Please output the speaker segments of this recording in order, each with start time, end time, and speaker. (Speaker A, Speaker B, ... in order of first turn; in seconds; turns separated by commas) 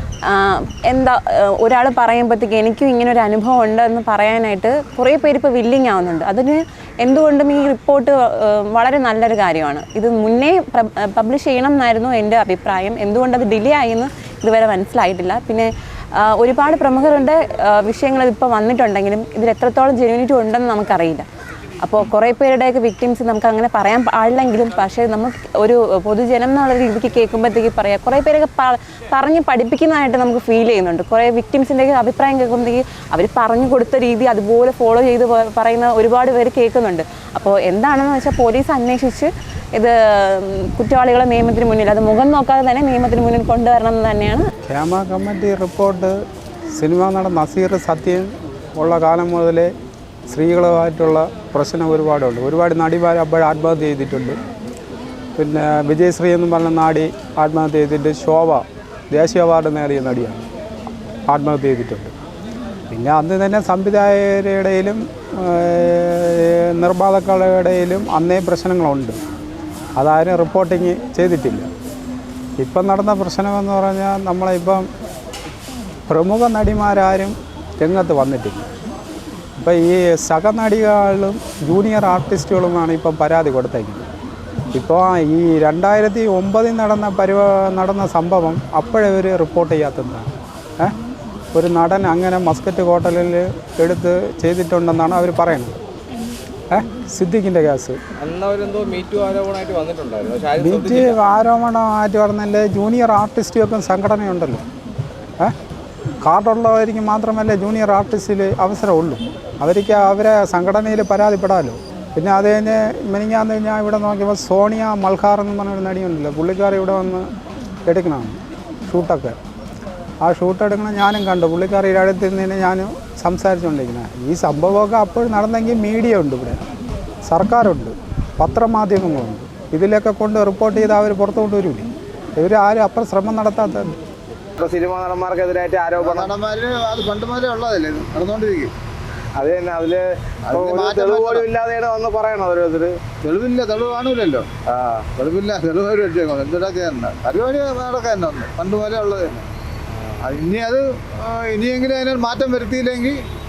Speaker A: 0.3-21.2, Speaker A: 21.8-44.5, Speaker B: 44.7-46.1, Speaker B: 46.8-49.7, Speaker B: 50.3-54.4, Speaker B: 55.4-60.4, Speaker B: 61.3-62.1, Speaker B: 62.9-69.2, Speaker B: 70.0-71.7, Speaker B: 72.6-74.9, Speaker B: 76.1-78.7, Speaker B: 79.6-84.0, Speaker B: 84.7-90.9, Speaker B: 91.5-95.7, Speaker B: 96.7-98.0, Speaker C: 98.2-101.1, Speaker B: 100.6-104.6, Speaker B: 106.2-117.3, Speaker B: 117.9-119.3, Speaker B: 120.2-126.6, Speaker B: 127.3-133.9, Speaker C: 134.6-136.3, Speaker D: 136.0-138.7, Speaker C: 139.3-143.0, Speaker D: 140.5-141.4, Speaker D: 143.2-144.5, Speaker C: 144.7-145.1, Speaker D: 145.2-149.4, Speaker D: 150.2-153.2